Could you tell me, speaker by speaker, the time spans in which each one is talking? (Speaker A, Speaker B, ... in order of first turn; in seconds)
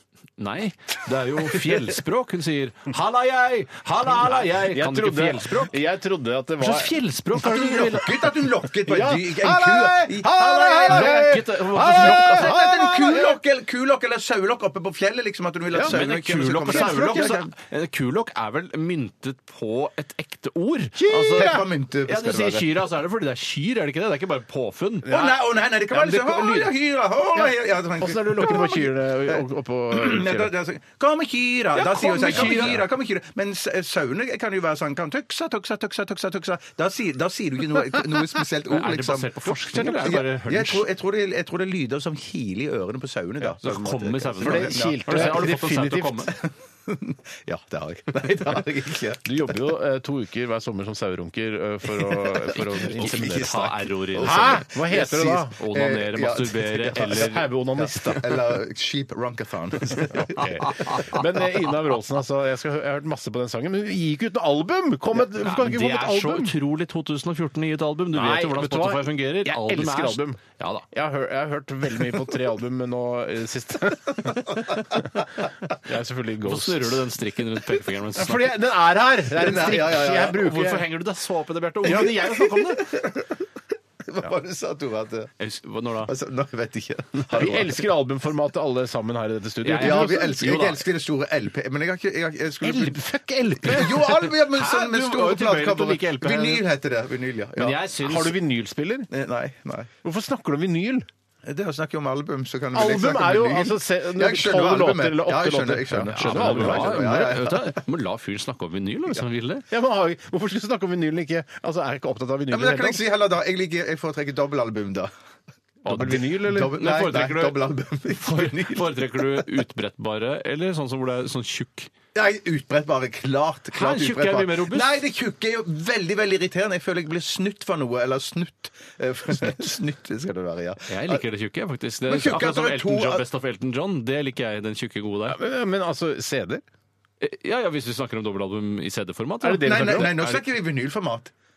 Speaker A: 0.4-5.8, 6.6-8.1, 10.8-12.6, 15.8-25.3, 25.9-26.7, 31.8-32.8, 38.7-40.9, 43.6-46.3, 52.8-54.7, 55.5-57.4, 60.6-61.1, 65.4-70.8, 76.4-78.5, 80.3-82.9, 85.4-86.1, 89.6-90.8, 93.7-96.6, 97.6-98.4, 106.1-109.6, 115.8-117.6, 118.2-121.9, 123.7-124.9, 130.9-135.4, 137.2-140.4
Speaker B: 4.1-7.8, 8.8-13.4, 15.7-16.0, 16.6-17.4, 20.9-21.6, 27.3-30.5, 32.2-32.8, 44.4-46.3, 49.2-53.6, 54.2-55.6, 56.8-58.5, 60.1-66.5, 68.1-75.1, 75.8-77.1, 78.1-80.8, 81.8-82.5, 87.3-90.6, 92.6-94.3, 98.0-99.1, 100.0-101.1, 102.7-107.3, 109.7-113.0, 115.8-116.8, 135.3-136.6, 139.4-140.3
Speaker C: 7.4-11.3, 11.9-17.4, 21.3-22.8, 25.1-45.4, 46.4-49.2, 51.9-61.1, 79.3-80.5, 81.8-83.3, 84.1-85.3, 86.0-87.8, 89.7-93.0, 93.6-97.8, 99.1-99.9, 101.4-107.8, 112.5-115.1, 115.9-119.5, 122.1-131.2, 132.1-133.2, 139.6-141.3